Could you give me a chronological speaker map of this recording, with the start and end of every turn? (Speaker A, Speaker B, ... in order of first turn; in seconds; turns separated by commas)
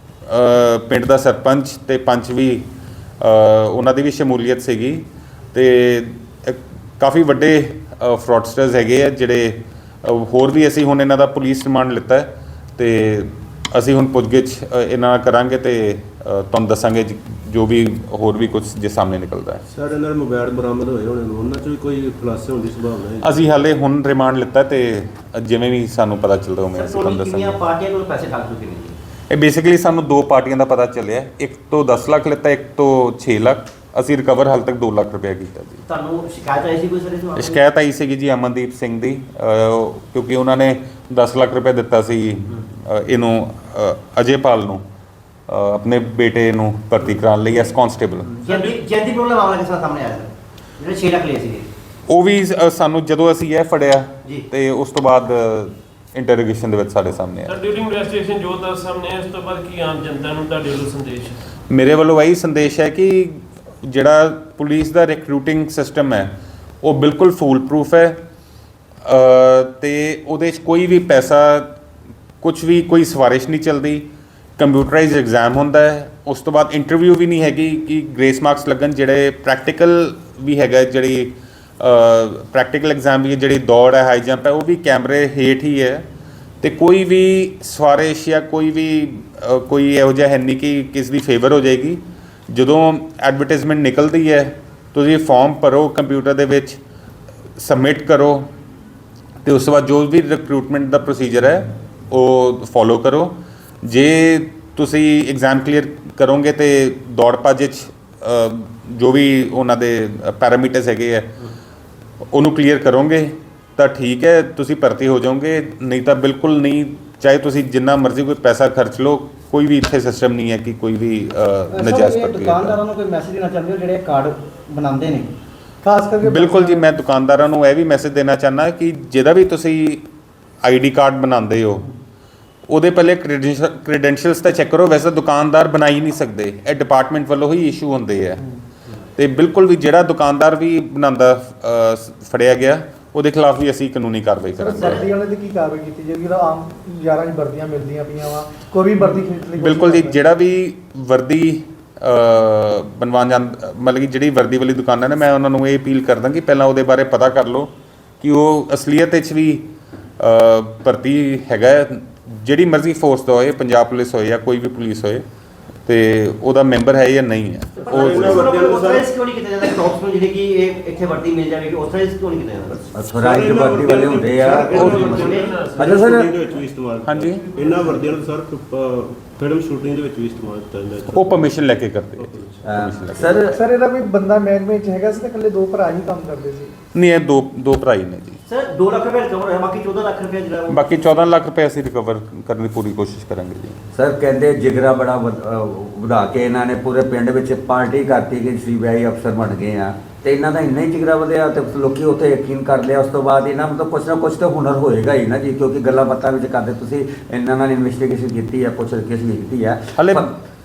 Speaker A: 0.3-2.7, Speaker A: 3.2-19.6, Speaker B: 19.7-23.4, Speaker A: 23.2-27.6, Speaker C: 26.7-29.0, Speaker A: 29.3-35.8, Speaker C: 35.9-37.6, Speaker A: 37.4-44.8, Speaker A: 45.5-48.4, Speaker C: 48.4-51.7, Speaker D: 48.5-48.8, Speaker A: 52.1-57.6, Speaker D: 57.5-61.4, Speaker A: 61.7-68.2, Speaker A: 69.0-71.7, Speaker A: 72.4-74.1, Speaker A: 74.6-86.1, Speaker A: 86.6-96.8, Speaker A: 97.6-98.5, Speaker A: 99.4-111.3, Speaker A: 112.3-122.8, Speaker C: 121.7-125.3, Speaker E: 125.8-126.9, Speaker A: 126.2-130.1, Speaker A: 130.6-131.9, Speaker A: 132.7-138.5, Speaker A: 139.2-145.1, Speaker E: 144.6-150.2, Speaker A: 149.0-157.7, Speaker A: 158.2-165.2, Speaker A: 165.9-168.5, Speaker C: 167.8-172.9, Speaker B: 167.9-169.1, Speaker F: 172.9-174.9, Speaker B: 173.1-182.7, Speaker C: 174.4-175.7, Speaker A: 174.7-175.2, Speaker D: 174.8-176.1, Speaker F: 175.8-176.3, Speaker A: 177.1-177.5, Speaker A: 181.1-183.4, Speaker F: 182.6-183.6, Speaker E: 183.5-186.7, Speaker A: 186.9-188.4, Speaker C: 188.5-191.2, Speaker A: 190.7-193.8, Speaker F: 193.9-210.4, Speaker A: 210.0-210.3